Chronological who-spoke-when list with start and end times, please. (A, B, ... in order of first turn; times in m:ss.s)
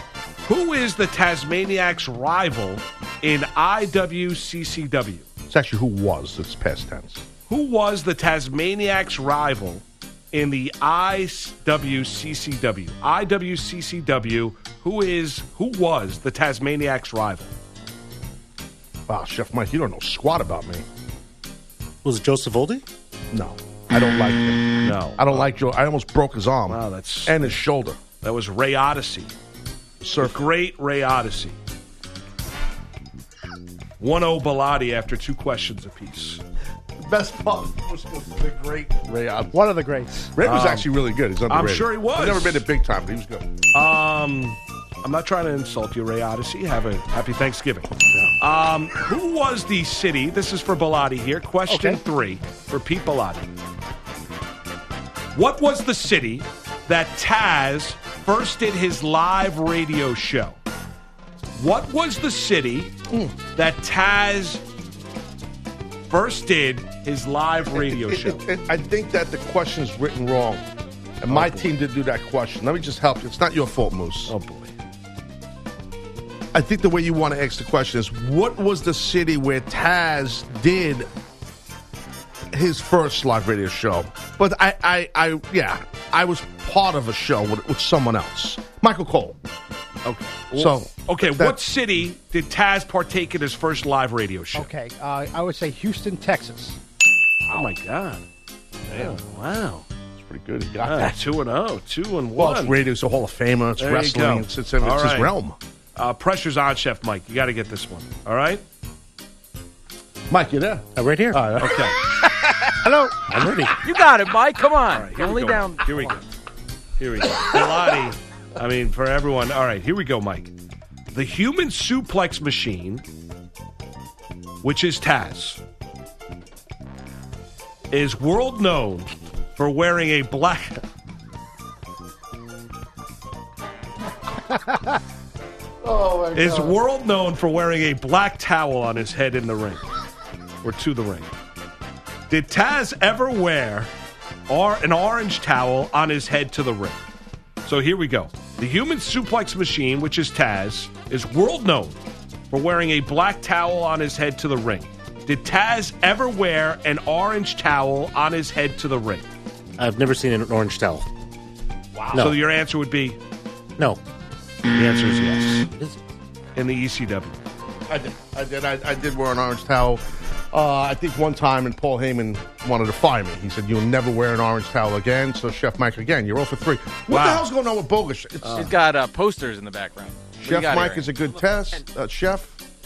0:00.4-0:05.2 A
0:05.5-0:07.2 B
0:07.5-0:17.5 A
0:19.1-0:20.8 B
0:22.0-0:22.8 C
0:23.3-0:28.0 B
0:24.8-0:25.5 A
0:26.7-0:27.6 A
0:28.2-0:29.3 A
0:30.0-0:30.5 B
0:30.2-0:31.6 A
0:34.0-0:36.4 A
0:37.0-0:39.6 B
0:39.5-0:40.3 D
0:40.3-0:43.5 B
0:40.4-0:40.9 A
0:41.5-0:42.6 A
0:43.7-0:53.5 A
0:48.1-0:48.4 B
0:51.7-0:52.0 D
0:55.3-1:00.6 A
1:01.6-1:02.9 A
1:03.1-1:03.4 B
1:03.5-1:04.6 A
1:06.1-1:08.4 A
1:07.7-1:10.6 B
1:11.2-1:14.3 B
1:11.3-1:11.7 A
1:14.3-1:14.7 A
1:16.5-1:21.1 B
1:22.5-1:29.4 B
1:30.0-1:34.7 A
1:30.5-1:31.6 B
1:34.5-1:36.8 D
1:37.5-1:38.2 A
1:38.9-1:39.1 B
1:38.9-1:39.8 A
1:40.2-1:41.2 B
1:40.8-1:42.8 A
1:42.4-1:45.6 B
1:43.8-1:45.3 A
1:46.0-1:48.6 A
1:50.3-1:51.9 B
1:50.9-1:51.5 C
1:51.6-1:52.0 A
1:52.8-1:53.2 D
1:53.2-1:53.7 C
1:53.8-1:56.2 E
1:54.9-1:56.2 A
1:57.0-2:00.5 A
2:01.1-2:03.0 A
2:04.6-2:05.6 A
2:07.9-2:10.8 A
2:15.8-2:16.7 B
2:16.3-2:19.8 A
2:20.6-2:21.3 A
2:22.3-2:23.9 A
2:24.5-2:27.0 A
2:27.6-2:32.0 A
2:32.5-2:39.2 A
2:39.8-2:41.1 C
2:41.9-2:42.3 B
2:42.1-2:43.2 A
2:44.7-2:45.6 A
2:45.7-2:46.0 C
2:46.6-2:47.4 A
2:47.9-2:58.7 B
2:57.1-2:57.4 A
2:58.4-2:58.7 A
2:58.5-3:01.2 E
3:00.4-3:02.6 B